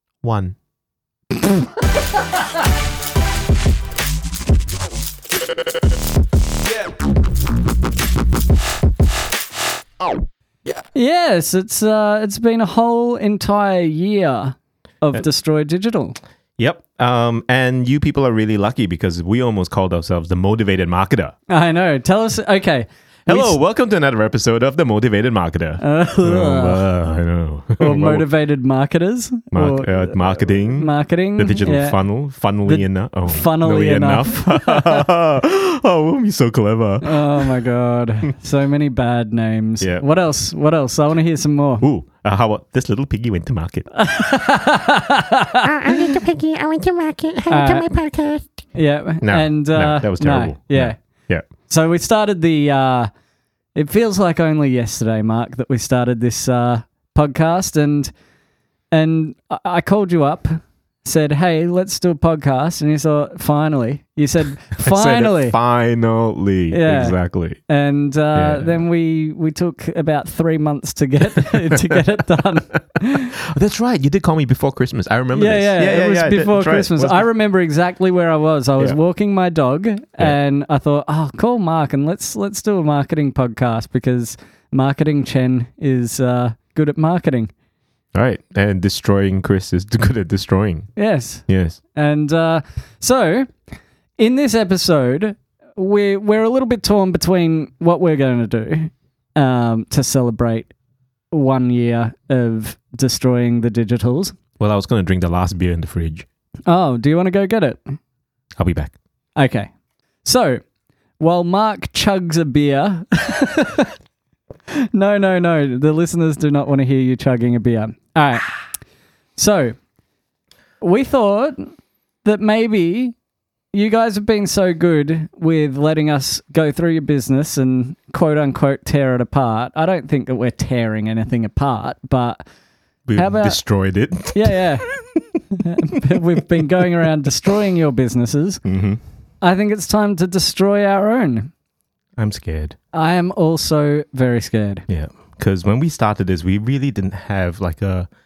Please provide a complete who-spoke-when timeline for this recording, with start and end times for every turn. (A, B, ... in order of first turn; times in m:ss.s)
0:00.2-0:00.6 A
0:10.9-0:16.2 B
0:16.6-0:21.4 A
0:21.5-0:23.6 B
0:23.3-0:28.3 A
0:25.8-0:26.8 B
0:27.8-0:32.0 B
0:29.5-0:37.5 A
0:32.7-0:35.0 B
0:37.0-0:41.8 B
0:41.8-0:43.9 A
0:44.0-0:46.2 B
0:45.6-0:48.5 C
0:47.5-0:48.0 B
0:48.7-0:51.0 B
0:49.2-0:51.4 A
0:51.7-0:53.1 B
0:53.8-0:58.1 B
0:58.9-1:05.6 B
1:04.8-1:07.6 A
1:06.7-1:13.4 B
1:08.3-1:08.8 A
1:11.4-1:12.0 A
1:13.4-1:17.2 A
1:15.4-1:27.5 B
1:28.1-1:30.9 A
1:31.0-1:33.6 B
1:31.5-1:31.8 A
1:34.2-1:40.7 B
1:41.3-1:44.4 B
1:44.6-1:46.3 A
1:46.7-1:48.0 B
1:48.6-1:48.9 A
1:49.4-1:49.7 B
1:50.2-1:50.6 B
1:51.2-1:53.9 B
1:54.9-1:58.5 B
1:59.4-1:59.8 B
2:00.8-2:01.7 B
2:02.2-2:03.2 B
2:03.7-2:12.4 B
2:13.1-2:15.2 A
2:13.2-2:13.6 B
2:14.3-2:15.0 B
2:15.5-2:18.6 B
2:18.6-2:19.0 A
2:19.4-2:21.5 B
2:22.2-2:22.8 A
2:22.9-2:24.9 B
2:24.9-2:28.1 A